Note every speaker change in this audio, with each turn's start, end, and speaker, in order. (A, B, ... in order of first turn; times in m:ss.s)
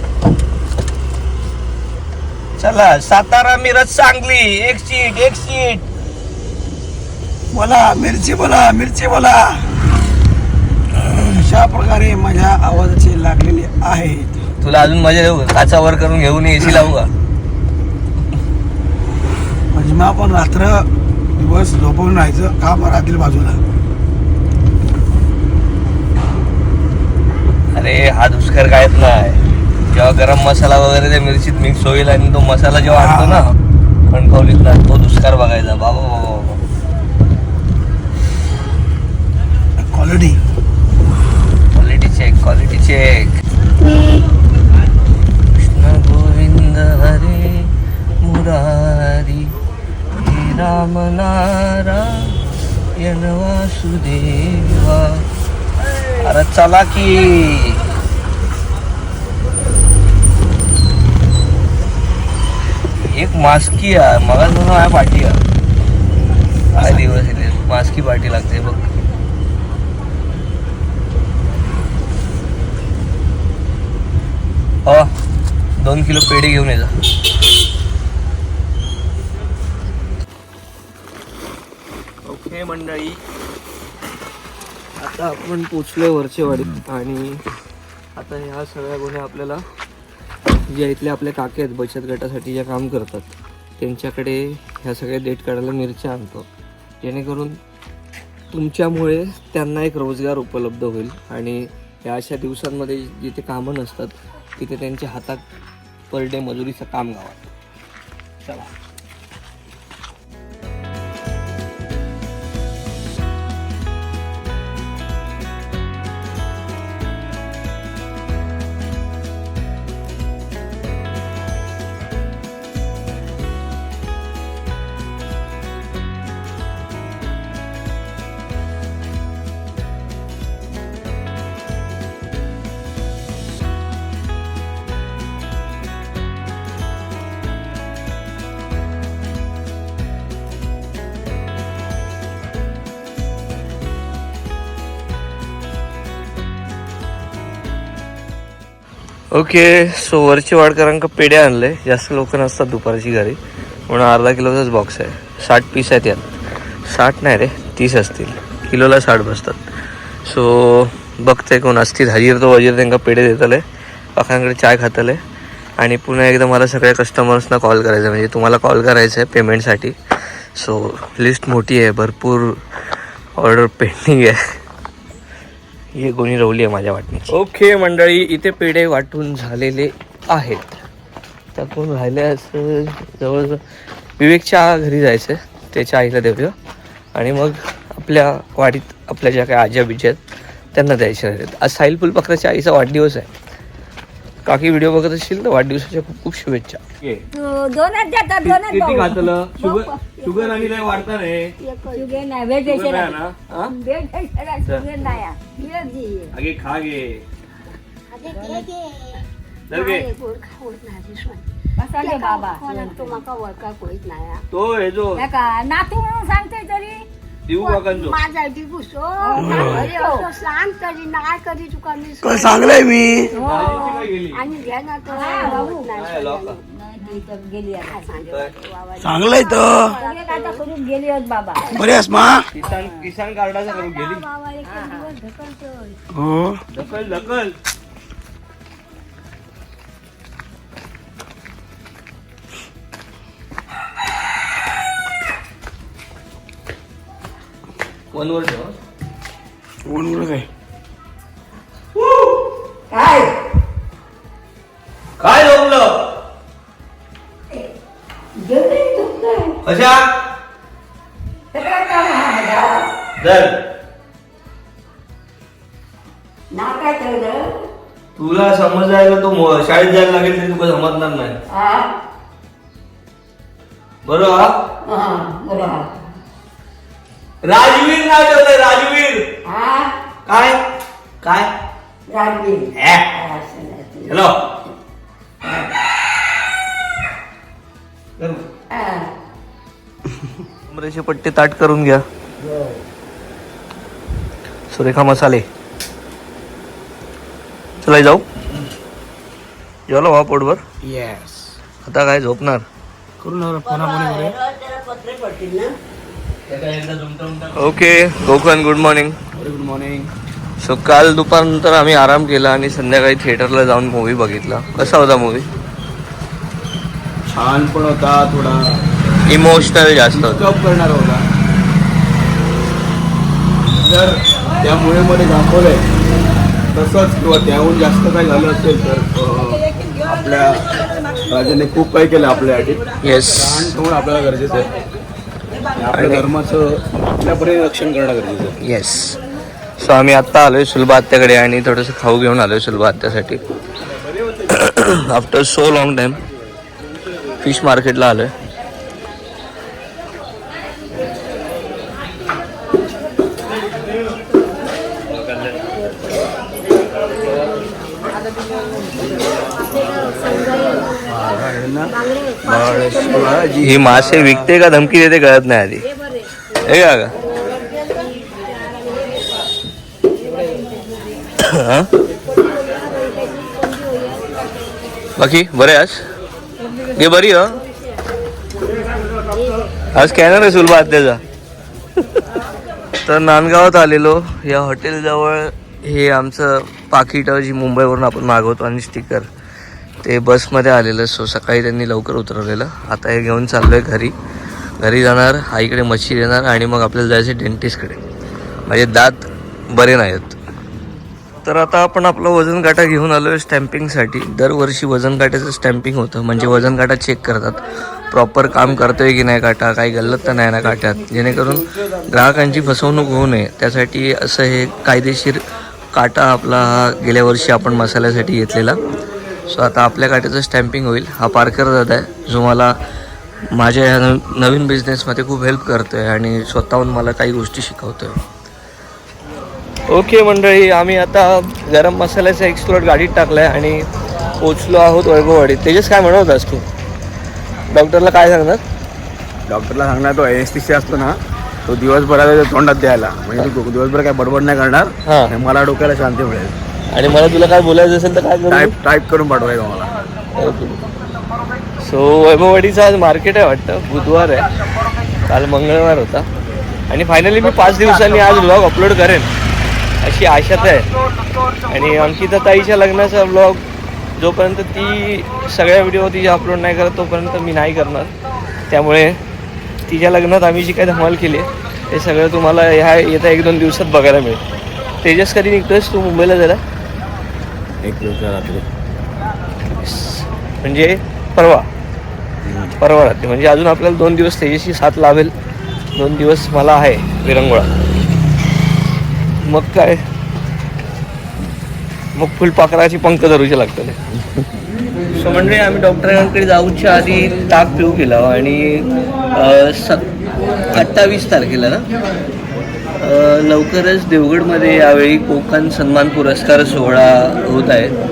0:02.6-0:05.8 A
0:07.5-0:09.7 B
0:11.0-0:14.4 B
0:14.6-0:17.1 A
0:19.7-0:23.6 B
0:27.8-0:33.5 A
0:32.9-0:33.4 B
0:34.1-0:36.6 A
0:39.8-0:40.4 B
0:41.7-0:43.4 A
0:45.5-0:47.7 A
0:48.2-0:49.5 A
0:50.1-0:52.4 A
0:53.0-0:55.3 A
0:56.2-0:57.8 A
1:03.1-1:05.4 A
1:06.7-1:08.8 A
1:14.8-1:15.1 A
1:15.8-1:16.9 A
1:22.2-1:23.2 A
1:25.0-1:27.4 A
1:28.2-1:29.7 A
1:30.7-1:36.5 A
1:37.0-1:37.6 A
1:38.5-1:45.4 A
1:46.1-1:47.5 A
2:29.3-2:36.3 A
2:36.9-2:39.7 A
2:40.3-2:43.6 A
2:44.2-2:45.2 A
2:45.8-2:52.6 A
2:53.4-2:54.6 A
2:56.0-3:00.8 A
3:01.6-3:03.6 A
3:04.2-3:06.5 A
3:07.2-3:10.2 A
3:10.7-3:13.3 A
3:14.4-3:17.2 A
3:17.3-3:20.0 C
3:18.4-3:21.5 A
3:20.0-3:20.9 D
3:21.6-3:22.3 D
3:21.9-3:25.9 C
3:22.6-3:23.7 A
3:25.6-3:26.3 D
3:26.3-3:27.2 A
3:28.1-3:31.4 D
3:28.4-3:28.7 C
3:29.7-3:30.1 A
3:31.8-3:33.1 C
3:32.0-3:34.4 D
3:34.5-3:35.3 A
3:35.2-3:37.0 C
3:37.5-3:38.2 A
3:37.6-3:42.8 D
3:39.2-3:40.3 C
3:39.4-3:39.9 B
3:42.2-3:43.3 B
3:43.3-3:44.1 C
3:43.4-3:47.2 D
3:43.5-3:44.4 A
3:45.1-3:45.9 C
3:45.9-3:46.6 A
3:46.7-3:48.2 C
3:47.8-3:50.7 D
3:49.0-3:49.9 B
3:50.0-3:51.7 C
3:51.7-3:52.5 B
3:52.6-3:54.2 A
3:53.7-3:56.0 C
3:54.6-3:55.1 D
3:56.1-3:56.6 B
3:56.7-3:57.5 A
4:08.1-4:08.8 A
4:09.8-4:10.5 B
4:12.0-4:12.3 A
4:12.9-4:13.4 C
4:15.2-4:16.0 A
4:18.4-4:19.6 C
4:19.6-4:20.0 A
4:21.5-4:22.9 C
4:23.2-4:23.6 A
4:26.5-4:27.6 C
4:28.2-4:31.4 A
4:31.5-4:31.9 C
4:34.0-4:34.6 A
4:34.8-4:36.0 C
4:37.4-4:39.3 A
4:39.5-4:40.0 C
4:40.3-4:40.6 A
4:41.2-4:41.5 A
4:42.1-4:44.2 C
4:42.8-4:43.2 A
4:44.1-4:44.4 A
4:48.7-4:49.1 C
4:50.7-4:52.0 A
4:54.7-4:55.5 A
4:57.8-4:58.3 A
4:59.9-5:00.6 A
5:00.8-5:01.6 E
5:01.8-5:02.7 A
5:03.2-5:04.4 E
5:05.0-5:05.7 E
5:06.5-5:09.2 A
5:09.4-5:10.1 E
5:10.6-5:15.5 A
5:17.3-5:18.6 E
5:19.3-5:20.5 A
5:20.1-5:21.2 E
5:23.8-5:25.8 E
5:26.7-5:30.7 E
5:31.3-5:34.7 E
5:33.0-5:33.7 A
5:35.8-5:38.6 E
5:35.9-5:36.3 A
5:38.6-5:39.2 A
5:39.8-5:43.4 A
5:44.5-5:46.2 A
5:47.4-5:48.3 A
6:01.1-6:04.5 E
6:03.6-6:05.8 A
6:06.6-6:07.1 A
6:11.4-6:11.9 A
6:15.2-6:16.0 A
6:17.0-6:17.6 A
6:19.9-6:21.2 A
6:23.0-6:29.3 A
6:30.0-6:34.2 A
6:34.8-6:38.0 A
6:38.7-6:40.4 A
6:41.4-6:55.4 A
6:55.9-6:58.8 A
6:59.5-7:02.8 A
7:03.5-7:08.2 A
7:09.9-7:13.8 A
7:14.4-7:16.6 A
7:17.7-7:18.6 A
7:19.5-7:26.6 E
7:25.1-7:25.3 A
7:26.9-7:28.7 A
7:28.5-7:29.9 E
7:30.4-7:30.8 A
7:31.8-7:34.5 A
7:35.3-7:36.3 A
7:36.9-7:39.3 A
7:40.0-7:40.9 A
7:41.7-7:43.6 A
7:44.2-7:48.1 A
7:48.7-7:49.2 A
7:49.9-7:54.4 A
7:55.0-7:56.6 A
7:57.8-7:58.7 E
7:59.8-8:01.7 A
8:02.4-8:02.8 E
8:02.8-8:05.3 A
8:06.0-8:07.7 A
8:09.4-8:10.0 A
8:12.2-8:14.0 A
8:15.1-8:20.1 A
8:20.7-8:21.8 A
8:23.0-8:28.0 A